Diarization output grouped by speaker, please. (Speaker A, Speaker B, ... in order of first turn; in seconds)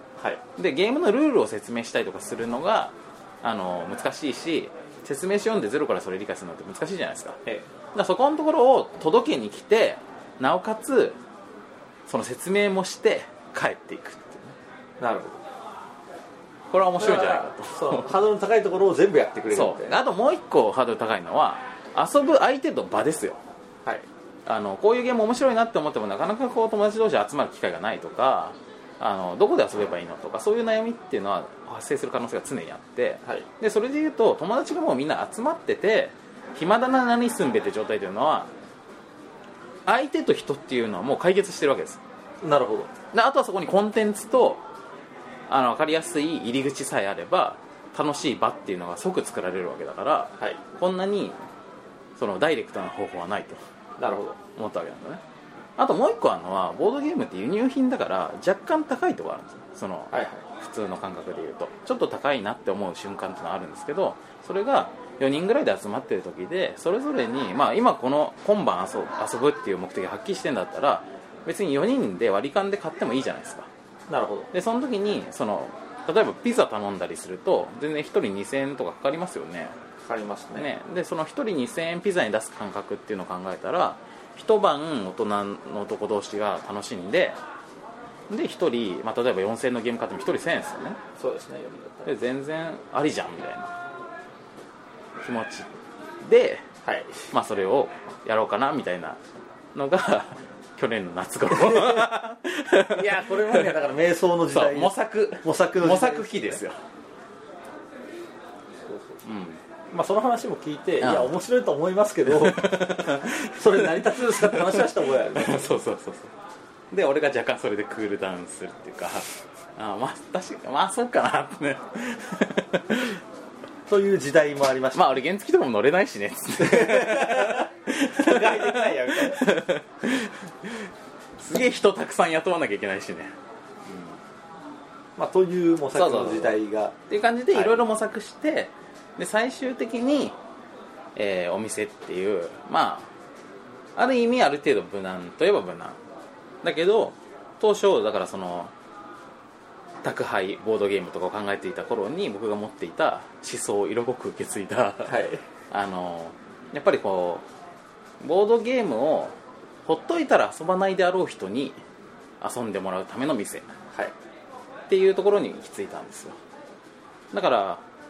Speaker A: 0.2-0.4, 15.0-15.4, 17.0-20.0, 42.4-42.9, 54.0-54.4, 60.1-60.5, 74.1-74.5, 80.0-80.7, 91.2-92.2, 96.8-97.3, 101.5-102.1, 102.9-106.6, 108.9-109.2, 109.9-115.7, 123.9-125.2, 126.6-129.6, 135.2-137.0, 137.5-137.8, 155.1-155.4
Speaker B: 0.6-7.4, 7.9-11.2, 12.1-14.6, 16.7-18.1, 19.5-23.4, 24.5-38.5, 39.9-42.0, 43.1-44.6, 45.5-51.4, 52.2-53.6, 54.6-55.2, 55.8-73.7, 74.5-79.8, 80.6-87.4, 88.3-91.0, 92.0-93.7, 95.2-95.7, 96.2-96.7, 97.3-99.2, 99.8-103.8, 104.5-106.8, 109.2-109.6, 111.0-111.3, 112.3-116.3, 116.9-123.2, 124.9-133.3, 133.9-134.1, 135.9-136.6, 137.1-140.4, 141.2-143.1, 144.0-146.0, 146.6-148.7, 150.0-157.4, 158.2-161.8, 162.4-163.7, 164.9-166.4, 167.3-167.8